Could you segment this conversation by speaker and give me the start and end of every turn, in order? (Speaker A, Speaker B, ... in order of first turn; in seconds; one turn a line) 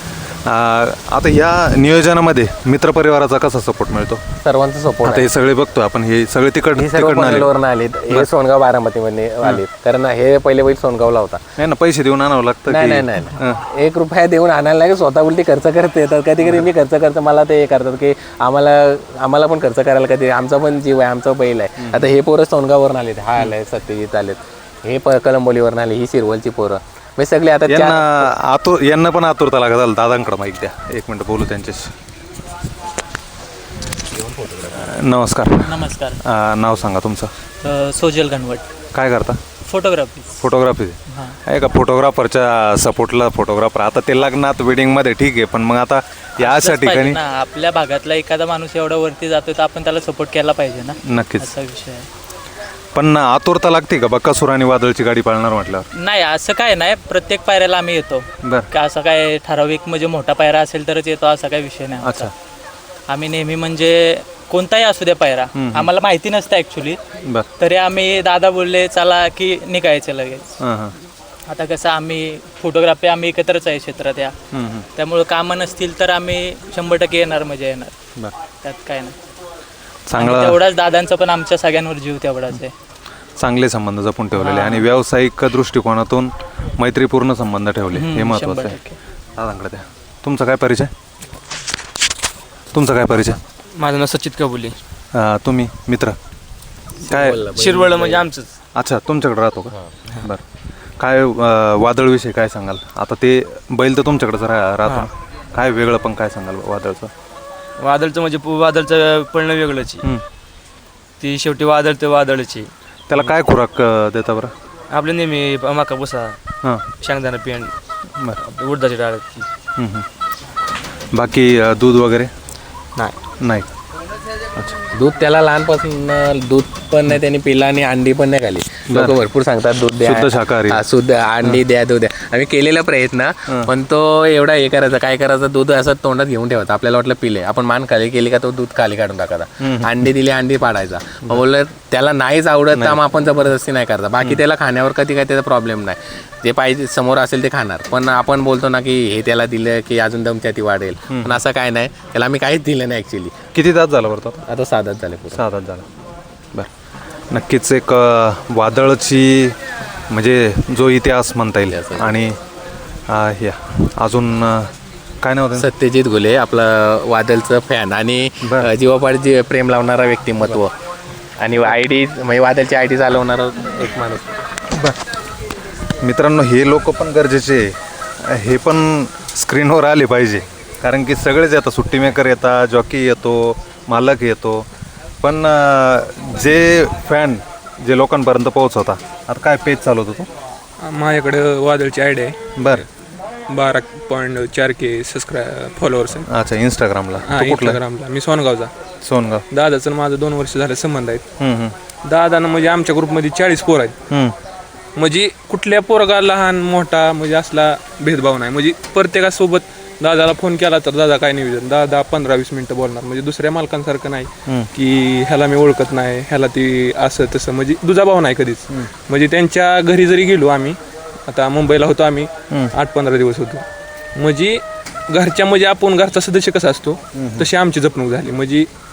Speaker A: 0.5-4.2
Speaker B: 4.4-5.3
Speaker A: 5.0-7.5
Speaker B: 6.8-11.4
Speaker A: 11.6-13.6
Speaker B: 12.7-28.3
Speaker A: 21.8-22.1
Speaker A: 27.7-31.9
Speaker A: 34.7-37.3
Speaker C: 35.6-36.2
Speaker C: 37.6-38.7
Speaker A: 38.9-39.4
Speaker C: 39.7-40.5
Speaker A: 40.4-47.2
Speaker C: 41.1-41.4
Speaker C: 46.4-52.1
Speaker A: 51.0-51.5
Speaker A: 53.0-55.9
Speaker C: 56.0-62.3
Speaker A: 58.4-58.7
Speaker A: 62.0-62.3
Speaker C: 63.1-67.0
Speaker A: 65.5-65.9
Speaker C: 67.6-70.5
Speaker A: 70.6-71.0
Speaker C: 71.5-74.3
Speaker A: 74.5-74.9
Speaker C: 75.0-77.9
Speaker C: 78.6-79.2
Speaker A: 80.1-80.6
Speaker C: 80.1-82.7
Speaker A: 83.4-88.8
Speaker C: 84.4-84.9
Speaker C: 87.9-89.0
Speaker A: 89.4-90.9
Speaker A: 92.7-93.4
Speaker D: 93.8-94.8
Speaker A: 95.1-96.2
Speaker A: 97.1-97.5
Speaker B: 97.1-98.2
Speaker D: 97.4-98.5
Speaker A: 98.8-100.4
Speaker A: 101.0-107.1
Speaker D: 107.8-110.0
Speaker D: 111.2-113.3
Speaker A: 113.1-114.5
Speaker D: 114.9-116.4
Speaker D: 117.0-117.7
Speaker D: 118.4-119.5
Speaker A: 119.8-120.0
Speaker A: 121.1-122.3
Speaker A: 123.4-123.7
Speaker B: 124.9-153.4
Speaker A: 130.0-130.8
Speaker A: 139.6-140.0
Speaker A: 142.8-143.0
Speaker A: 151.1-151.4
Speaker A: 153.5-154.4
Speaker B: 154.5-155.4
Speaker A: 155.3-155.8
Speaker A: 157.3-159.6
Speaker A: 160.1-162.4
Speaker B: 161.7-162.1
Speaker A: 163.1-165.7
Speaker B: 165.6-170.7
Speaker A: 168.4-168.7
Speaker B: 171.4-174.3
Speaker A: 174.7-175.0
Speaker A: 176.0-184.7
Speaker A: 185.2-190.3
Speaker E: 190.8-192.4
Speaker A: 192.6-192.8
Speaker E: 193.5-196.3
Speaker A: 196.2-197.8
Speaker E: 197.2-198.7
Speaker A: 199.0-199.4
Speaker E: 199.5-201.2
Speaker A: 201.4-201.8
Speaker E: 202.1-203.9
Speaker A: 204.1-204.4
Speaker E: 205.0-223.7
Speaker E: 224.2-228.7
Speaker A: 227.2-227.5